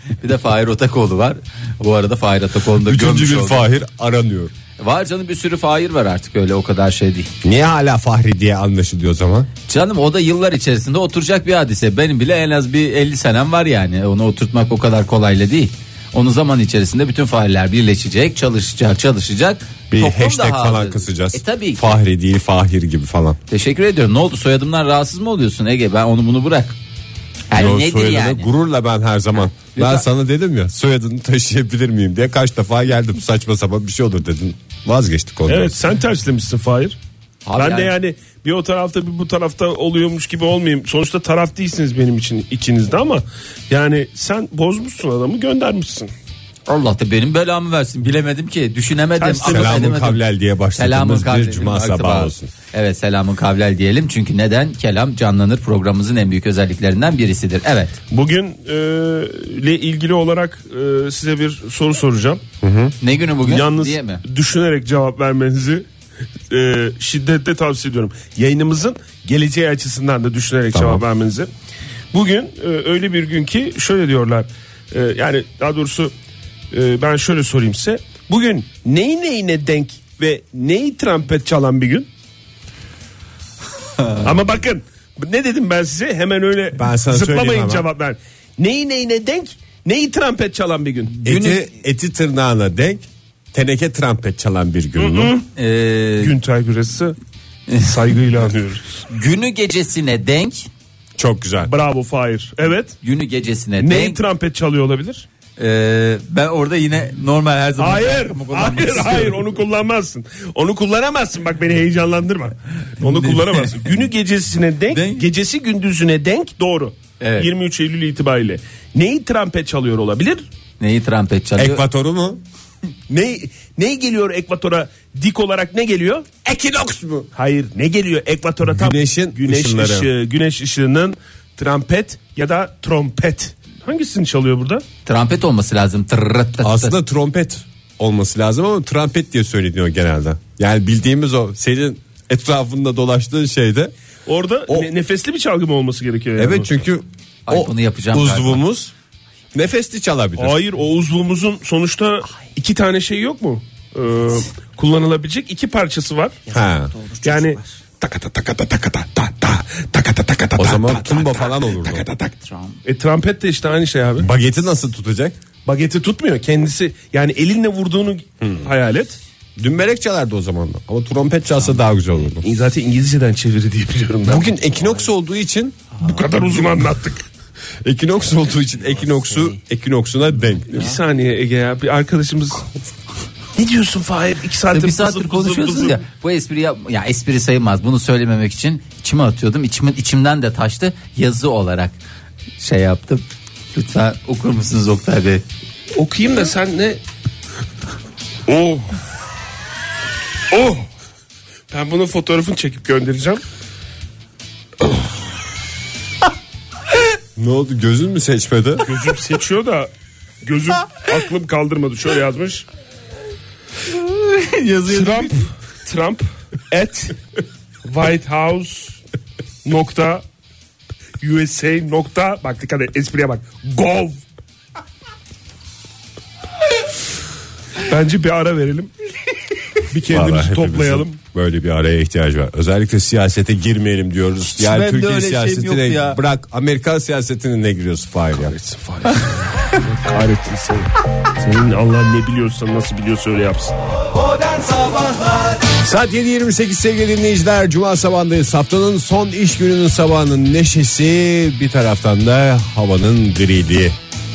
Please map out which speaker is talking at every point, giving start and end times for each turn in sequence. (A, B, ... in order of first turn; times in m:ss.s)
0:00.2-0:03.7 A
0:02.8-0:04.5 B
0:04.8-0:07.3 A
0:07.4-0:09.5 B
0:09.7-0:22.0 A
0:19.9-0:23.4 B
0:23.5-0:26.8 A
0:27.5-0:28.5 A
0:27.5-0:35.8 B
0:29.8-0:30.0 A
0:35.5-0:37.0 C
0:37.4-0:37.9 A
0:37.6-0:46.1 C
0:46.7-0:50.2 A
0:49.2-0:49.8 C
0:49.4-0:52.5 B
0:50.7-0:58.0 A
0:58.1-1:02.4 C
1:02.6-1:03.0 B
1:03.0-1:04.2 A
1:03.4-1:05.8 C
1:06.5-1:11.5 C
1:10.7-1:11.0 B
1:12.1-1:16.1 C
1:16.7-1:22.1 C
1:24.0-1:24.3 A
1:24.2-1:31.2 C
1:26.8-1:27.9 B
1:31.2-1:31.7 A
1:31.2-1:35.3 B
1:35.0-1:35.5 C
1:35.6-1:36.4 A
1:36.2-1:37.2 C
1:37.8-1:39.0 C
1:39.1-1:40.7 A
1:41.2-1:41.7 B
1:41.6-1:43.0 C
1:43.0-1:44.2 A
1:43.8-1:45.3 C
1:45.6-1:49.4 A
1:47.8-2:00.5 C
1:53.0-1:53.8 A
1:54.9-1:55.2 A
1:57.2-1:57.5 A
2:00.8-2:01.8 A
2:01.6-2:02.4 B
2:03.1-2:06.3 C
2:06.4-2:07.3 B
2:07.4-2:14.8 C
2:08.7-2:10.1 B
2:15.0-2:17.0 A
2:16.6-2:23.9 B
2:24.3-2:26.7 C
2:26.4-2:28.9 B
2:27.5-2:28.6 A
2:29.5-2:30.6 B
2:30.4-2:36.4 C
2:36.5-2:36.9 B
2:36.9-2:37.6 A
2:37.2-2:42.3 C
2:40.6-2:42.1 B
2:42.4-2:42.8 A
2:42.8-2:44.3 C
2:44.2-2:45.4 B
2:45.7-2:49.2 C
2:49.6-2:52.5 B
2:52.4-2:54.5 C
2:54.2-2:55.8 B
2:56.0-2:57.2 C
2:57.8-3:01.0 B
3:00.7-3:02.6 C
3:03.6-3:06.0 C
3:04.7-3:12.0 A
3:12.6-3:15.4 A
3:16.0-3:17.0 C
3:18.5-3:19.0 C
3:20.5-3:20.8 C
3:21.7-3:23.4 C
3:27.4-3:28.9 B
3:28.8-3:29.9 C
3:30.4-3:32.7 C
3:33.9-3:35.3 A
3:34.9-3:37.2 C
3:37.9-3:39.0 C
3:39.6-3:40.2 C
3:41.2-3:44.2 C
3:47.8-3:48.9 C
3:49.9-3:51.2 C
3:50.1-3:58.6 B
3:54.4-3:56.2 A
3:58.4-4:03.8 C
4:04.5-4:05.3 A
4:05.7-4:14.0 B